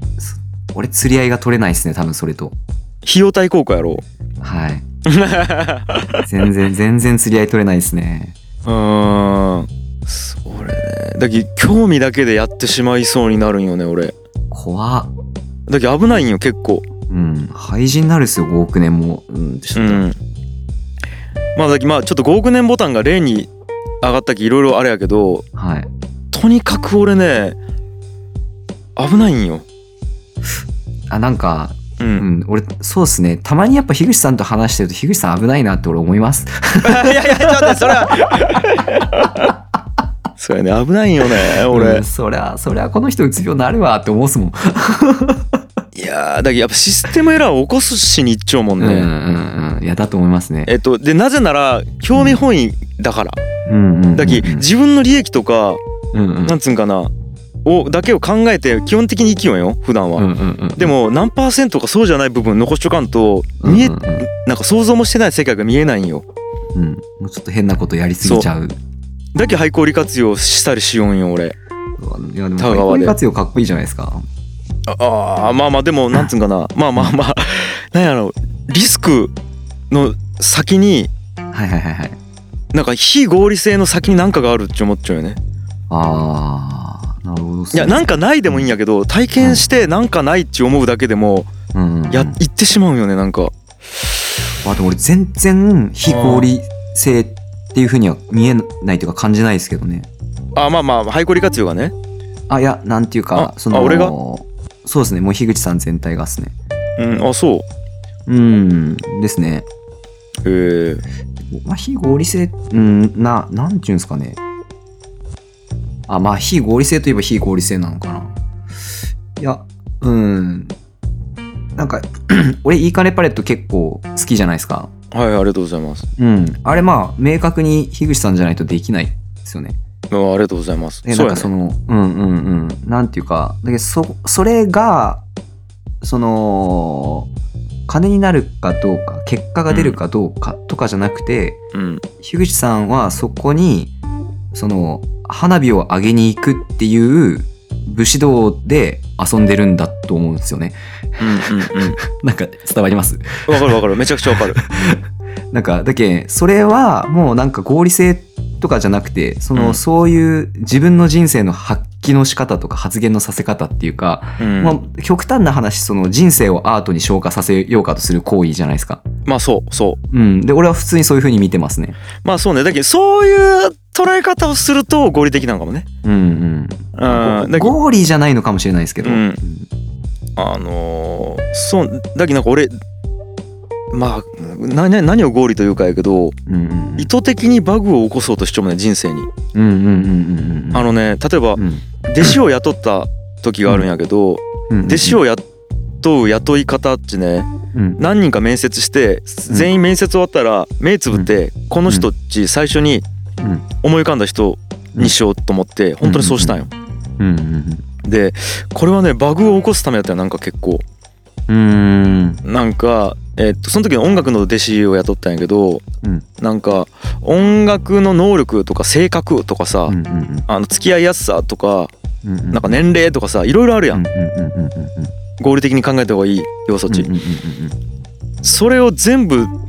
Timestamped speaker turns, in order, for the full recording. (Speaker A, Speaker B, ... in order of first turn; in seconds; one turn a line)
Speaker A: 0.2-2.6
Speaker B: 3.0-4.0
Speaker A: 4.4-4.8
Speaker B: 5.1-6.2
Speaker A: 6.2-8.4
Speaker B: 8.6-14.1
Speaker A: 14.5-15.1
Speaker B: 15.7-16.8
Speaker A: 17.1-20.1
Speaker B: 19.7-20.2
Speaker B: 21.6-23.5
Speaker B: 24.0-25.4
Speaker A: 25.6-25.9
Speaker B: 26.3-27.6
Speaker B: 28.9-29.6
Speaker A: 31.1-38.2
Speaker B: 32.0-32.2
Speaker B: 36.8-39.5
Speaker B: 40.4-42.0
Speaker A: 41.7-45.6
Speaker B: 45.9-49.1
Speaker A: 48.8-50.7
Speaker B: 50.6-53.4
Speaker A: 52.1-52.4
Speaker A: 53.7-54.6
Speaker B: 54.1-55.8
Speaker A: 56.1-56.6
Speaker B: 56.4-57.1
Speaker B: 57.6-66.3
Speaker A: 60.1-60.9
Speaker A: 63.6-64.3
Speaker A: 66.7-68.8
Speaker B: 68.2-68.5
Speaker B: 69.3-71.6
Speaker A: 72.0-74.3
Speaker B: 72.6-73.1
Speaker B: 74.9-79.3
Speaker B: 79.9-81.1
Speaker A: 81.5-82.2
Speaker B: 82.7-85.4
Speaker A: 85.9-88.7
Speaker B: 87.7-91.5
Speaker A: 91.7-92.4
Speaker B: 92.1-93.5
Speaker A: 94.6-100.1
Speaker B: 96.1-96.5
Speaker B: 100.5-101.9
Speaker A: 102.5-106.5
Speaker B: 103.3-104.1
Speaker B: 107.0-107.7
Speaker A: 108.3-109.7
Speaker B: 110.4-111.0
Speaker A: 111.5-114.4
Speaker A: 116.1-118.3
Speaker A: 119.4-120.8
Speaker A: 121.8-124.9
Speaker B: 125.1-126.1
Speaker A: 126.2-129.8
Speaker B: 130.1-131.5
Speaker A: 131.1-135.2
Speaker A: 136.0-137.3
Speaker A: 137.9-141.6
Speaker B: 139.7-140.0
Speaker B: 141.7-142.0
Speaker A: 142.2-143.9
Speaker A: 144.5-155.0
Speaker B: 151.2-152.0
Speaker B: 153.5-154.6
Speaker A: 155.5-169.0
Speaker B: 164.4-164.8
Speaker B: 169.3-170.0
Speaker A: 170.1-172.0
Speaker B: 172.2-175.9
Speaker A: 176.0-179.7
Speaker B: 176.9-177.7
Speaker B: 179.0-179.4
Speaker B: 180.4-182.7
Speaker B: 183.9-186.4
Speaker A: 186.5-187.1
Speaker B: 187.0-189.3
Speaker A: 189.5-190.9
Speaker B: 190.7-195.4
Speaker A: 191.6-192.4
Speaker A: 194.7-195.2
Speaker B: 196.0-203.1
Speaker A: 197.7-198.0
Speaker A: 203.4-203.7
Speaker B: 203.8-206.7
Speaker A: 206.0-206.6
Speaker A: 207.2-207.8
Speaker B: 208.1-210.8
Speaker A: 211.5-212.4
Speaker B: 212.4-215.8
Speaker B: 216.4-219.9
Speaker A: 219.9-220.5
Speaker B: 220.5-221.9
Speaker A: 222.2-222.8
Speaker B: 222.5-224.0
Speaker A: 223.9-225.1
Speaker B: 225.4-227.1
Speaker A: 226.9-227.8
Speaker B: 228.4-229.5